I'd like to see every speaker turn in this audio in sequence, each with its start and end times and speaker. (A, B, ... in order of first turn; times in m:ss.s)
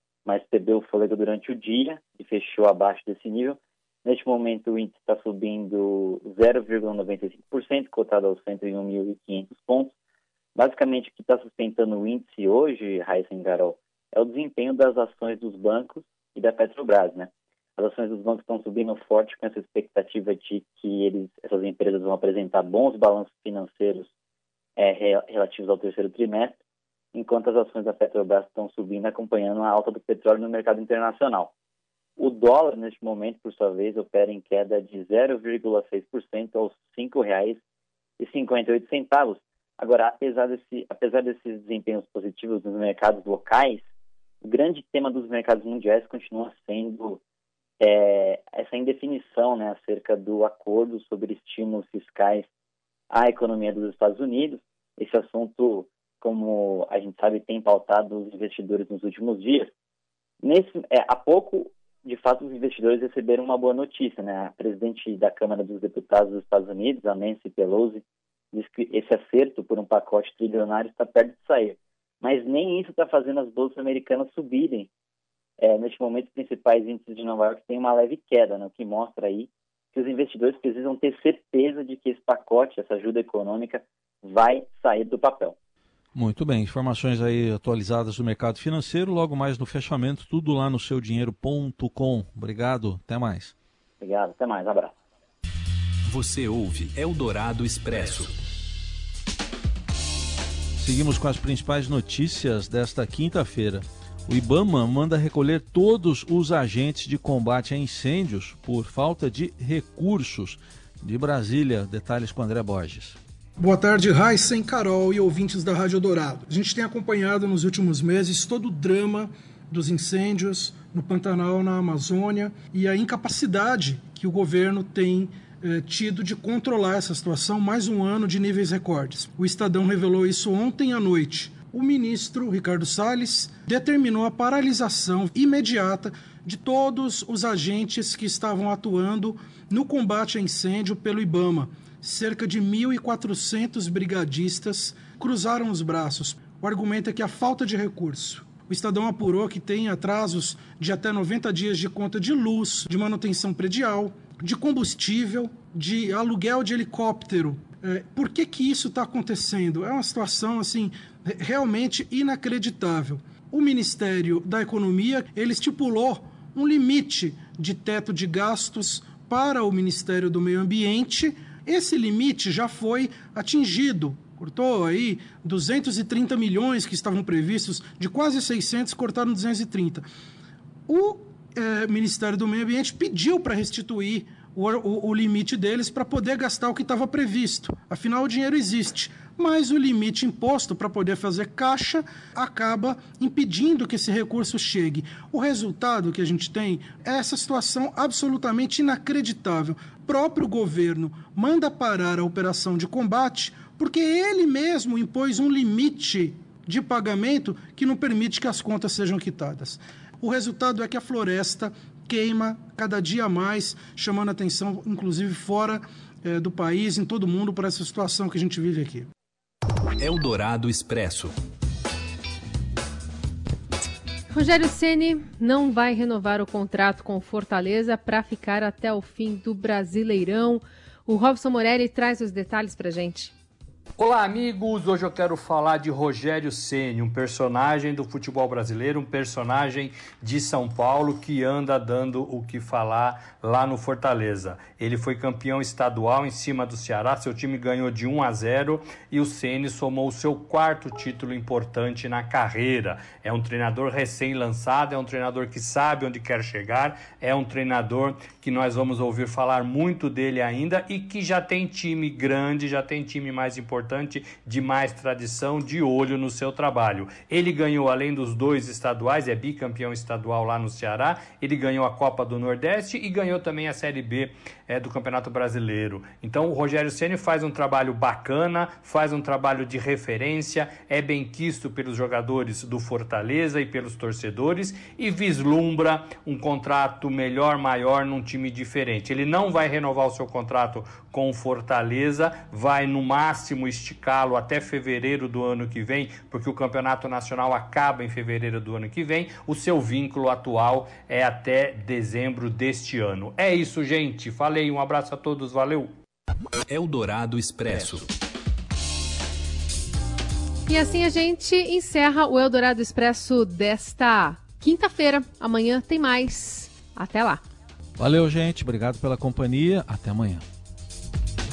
0:00.2-0:09.9 A
0:10.5-0:24.1 A
0:24.8-0:26.6 A
0:27.1-0:31.5 A
0:32.2-0:37.6 A
0:38.2-0:43.8 A
0:44.4-0:47.2 A
0:47.8-0:52.5 A
0:53.1-0:59.7 A
1:00.4-1:14.9 A
1:15.6-1:25.6 A
1:26.1-1:33.5 B
1:34.0-1:34.9 A
1:36.0-1:38.3 C
1:40.8-1:53.2 B
1:53.6-3:00.0 D
3:00.9-3:39.1 D
3:40.0-3:41.3 C
3:44.3-3:53.3 E
3:54.0-5:05.9 F
5:06.7-5:08.1 C
5:10.7-5:17.4 E
5:18.0-5:20.4 B